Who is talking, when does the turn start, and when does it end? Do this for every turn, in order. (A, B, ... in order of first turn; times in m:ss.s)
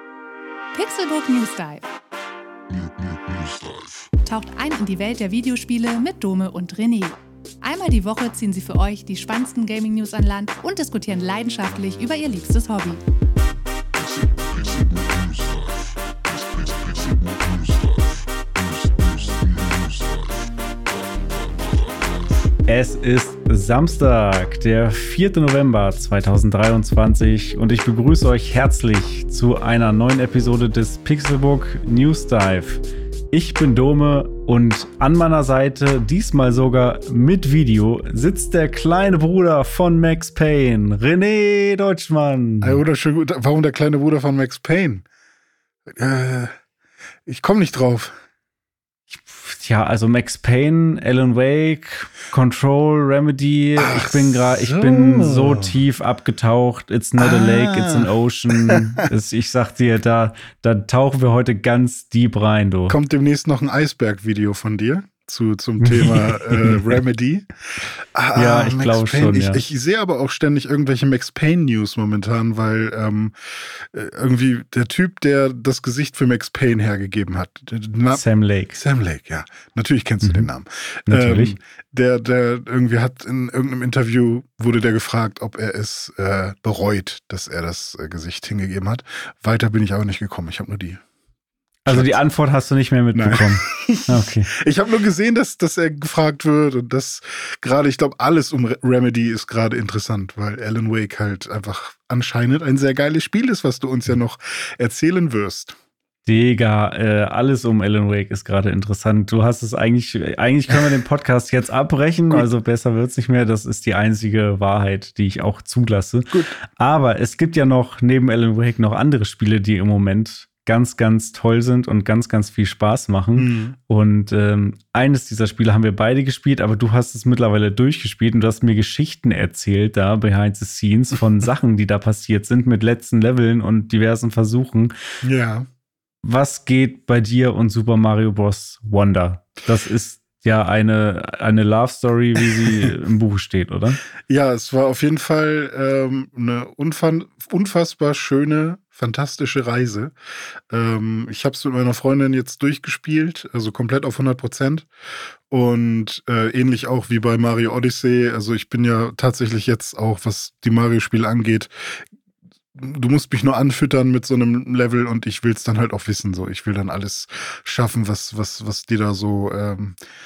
0:00.7-0:01.9 A
0:04.2-0:13.0 A
0:22.7-0:42.8 B
0:42.6-0:45.0 C
0:45.9-0:46.5 C
0:47.3-0:48.2 C
0:49.1-1:03.0 B
0:53.8-0:55.8 C
0:57.2-0:59.0 C
1:02.9-1:07.5 C
1:05.8-1:06.8 B
1:08.2-1:31.0 C
1:08.4-1:09.6 B
1:18.1-1:18.8 B
1:20.2-1:20.5 B
1:21.1-1:21.6 B
1:31.8-1:34.5 B
1:31.9-1:32.2 C
1:33.2-1:45.8 C
1:46.3-2:14.9 B
2:03.4-2:03.8 C
2:15.2-2:15.7 C
2:16.2-2:24.0 B
2:24.3-2:30.1 C
2:30.7-2:34.9 C
2:35.5-2:42.0 C
2:42.8-2:50.0 C